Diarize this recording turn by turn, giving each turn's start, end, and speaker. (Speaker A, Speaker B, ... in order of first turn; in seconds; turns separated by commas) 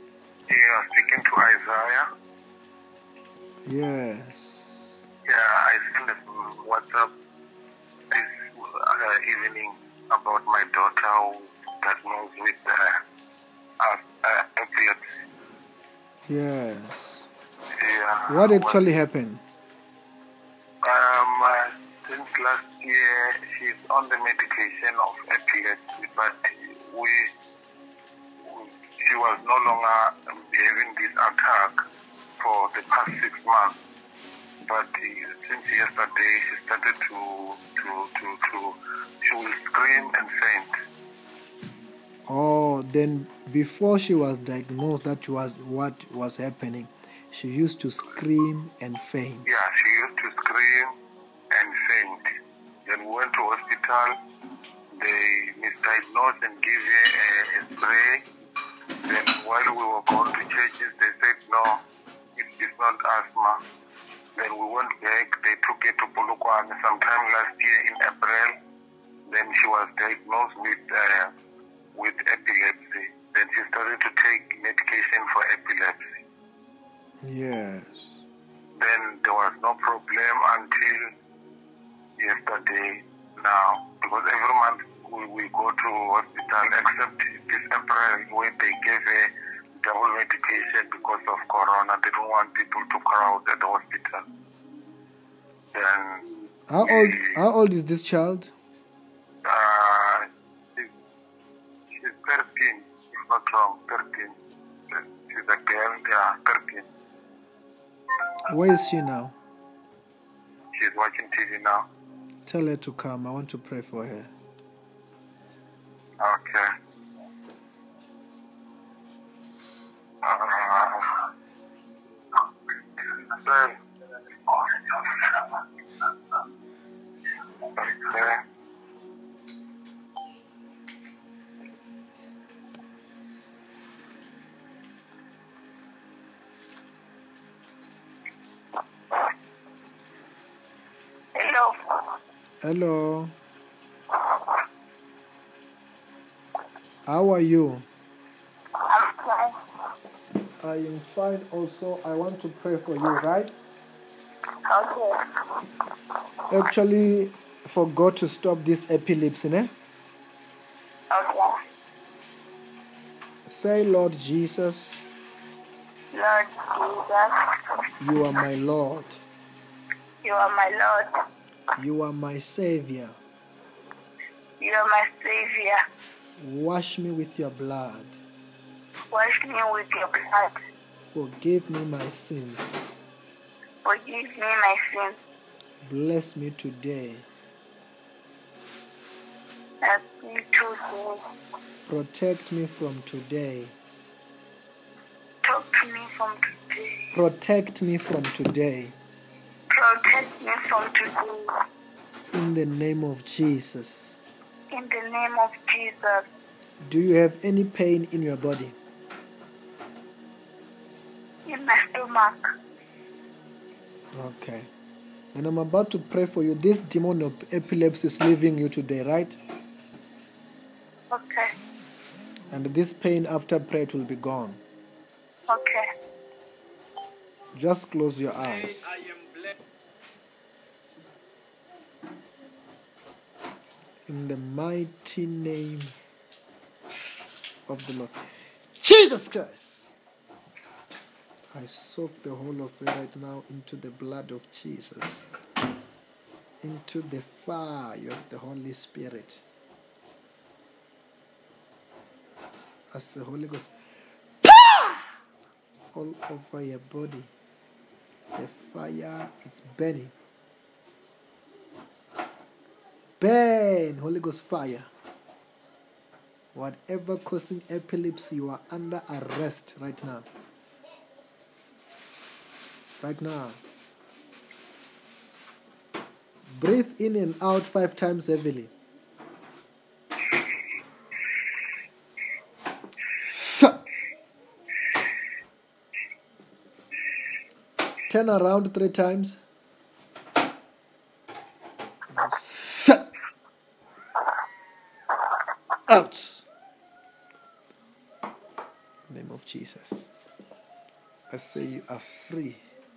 Speaker A: 0.5-2.1, Speaker B: 3.7-4.7, Speaker A: 5.3-7.1, Speaker A: 8.1-13.0, Speaker A: 13.8-15.0, Speaker B: 16.3-17.3, Speaker A: 17.8-18.8, Speaker B: 18.3-19.4, Speaker A: 20.8-27.3, Speaker A: 28.4-31.8, Speaker A: 32.4-33.8, Speaker A: 34.6-40.7, Speaker B: 42.3-49.5, Speaker A: 49.5-50.9, Speaker A: 51.5-52.2, Speaker A: 52.9-54.2, Speaker A: 54.9-58.2, Speaker A: 59.1-61.8, Speaker A: 62.4-63.6, Speaker A: 64.4-68.5, Speaker A: 69.3-71.3, Speaker A: 72.0-76.0, Speaker B: 77.2-78.2, Speaker A: 78.8-81.1, Speaker A: 82.2-89.3, Speaker A: 89.8-94.2, Speaker A: 95.7-97.4, Speaker B: 96.7-98.5, Speaker A: 99.5-100.9, Speaker A: 101.9-104.3, Speaker A: 104.9-106.9, Speaker B: 108.5-109.3, Speaker A: 110.7-111.9, Speaker B: 112.5-114.3, Speaker A: 116.2-116.7, Speaker A: 120.2-121.3, Speaker A: 123.0-123.8, Speaker A: 124.5-125.6, Speaker A: 127.6-128.4, Speaker C: 141.3-142.2, Speaker B: 142.6-143.3, Speaker B: 147.1-147.8, Speaker C: 148.9-149.5, Speaker B: 150.6-153.5, Speaker C: 154.7-155.2, Speaker B: 156.5-159.7, Speaker C: 161.1-161.6, Speaker B: 163.5-165.0, Speaker C: 166.1-167.3, Speaker B: 168.0-169.2, Speaker C: 170.2-171.1, Speaker B: 171.8-173.2, Speaker C: 174.6-175.8, Speaker B: 176.4-178.2, Speaker C: 179.1-180.6, Speaker B: 181.1-182.9, Speaker C: 183.8-185.2, Speaker B: 185.8-187.3, Speaker C: 189.8-191.2, Speaker B: 191.9-193.8, Speaker C: 195.4-197.1, Speaker B: 197.1-199.0, Speaker C: 199.7-201.5, Speaker B: 202.3-204.2, Speaker C: 204.7-206.2, Speaker B: 206.8-208.8, Speaker C: 211.5-212.5, Speaker B: 214.1-214.7, Speaker B: 215.3-219.4, Speaker C: 221.1-221.5, Speaker B: 222.5-224.6, Speaker C: 225.5-225.9, Speaker B: 227.5-229.0, Speaker B: 234.1-236.0, Speaker B: 237.7-238.2, Speaker B: 238.8-239.9, Speaker B: 241.5-245.3, Speaker B: 246.6-249.4, Speaker B: 252.9-253.7, Speaker B: 254.5-254.9, Speaker B: 255.9-257.3, Speaker B: 258.4-260.1, Speaker B: 263.2-264.9, Speaker B: 266.5-270.3, Speaker B: 273.0-273.6, Speaker B: 276.5-278.7, Speaker B: 283.2-283.8, Speaker B: 288.1-289.4, Speaker B: 292.1-293.1, Speaker B: 295.9-296.4, Speaker B: 299.1-300.1, Speaker B: 301.3-302.6